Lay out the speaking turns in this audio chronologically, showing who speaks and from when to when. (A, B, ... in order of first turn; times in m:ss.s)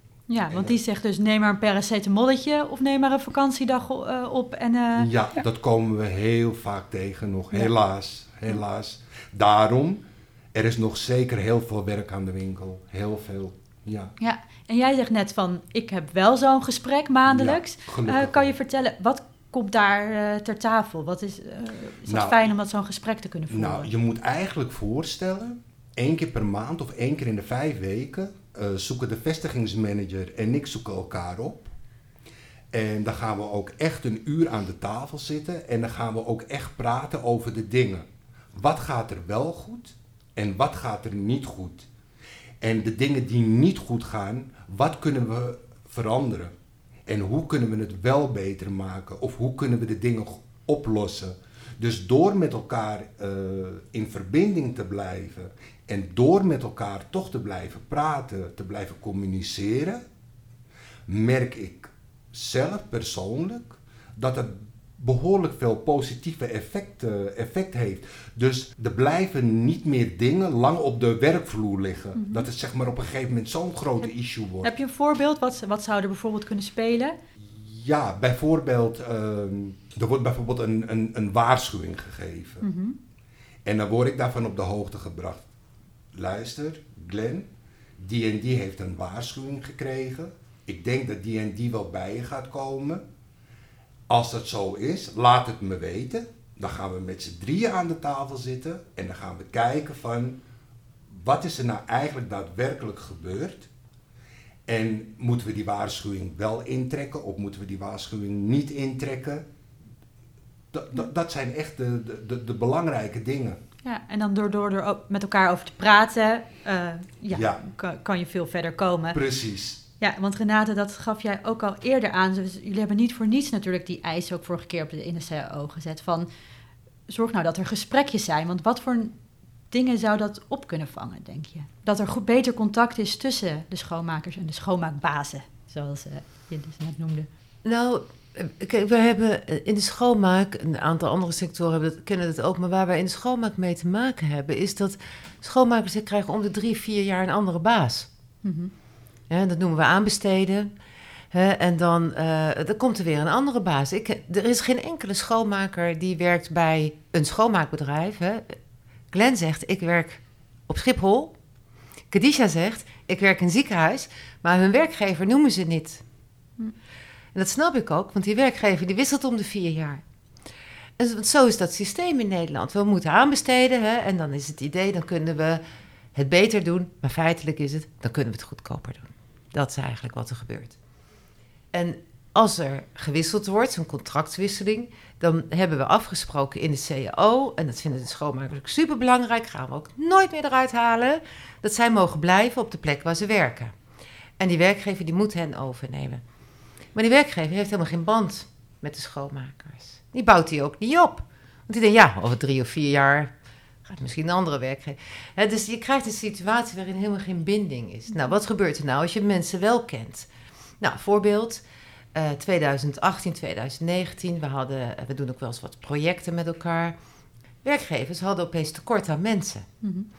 0:00.3-0:05.1 A
0:05.0-0:14.1 B
0:14.2-0:23.9 A
0:17.3-0:18.5 B
0:22.1-0:22.4 B
0:23.5-0:31.7 B
0:32.7-0:41.9 B
0:42.6-0:46.5 B
0:47.1-1:00.0 B
1:01.1-1:14.7 B
1:12.2-1:12.5 A
1:14.6-1:17.2 A
1:17.5-1:22.6 B
1:22.6-1:23.0 A
1:23.6-1:25.5 B
1:26.1-1:27.5 B
1:28.0-1:33.0 B
1:34.1-1:40.4 B
1:41.1-1:43.7 B
1:44.7-1:49.4 B
1:50.7-1:53.6 B
1:53.8-1:59.2 A
1:57.3-1:57.6 B
1:59.1-1:59.8 B
2:00.0-2:06.3 A
2:07.1-2:09.1 A
2:09.7-2:17.3 A
2:17.6-2:28.1 C
2:28.4-2:28.7 A
2:29.3-2:30.7 C
2:31.3-2:38.6 C
2:39.1-2:41.4 C
2:42.1-2:46.0 C
2:47.3-2:50.0 C
2:51.0-2:55.6 C
2:56.2-3:00.8 C
3:01.7-3:13.7 C
3:14.4-3:16.2 C
3:16.9-3:23.3 C
3:23.8-3:30.3 C
3:30.8-3:31.6 C
3:32.1-3:37.0 C
3:37.6-3:39.7 C
3:39.8-3:40.1 A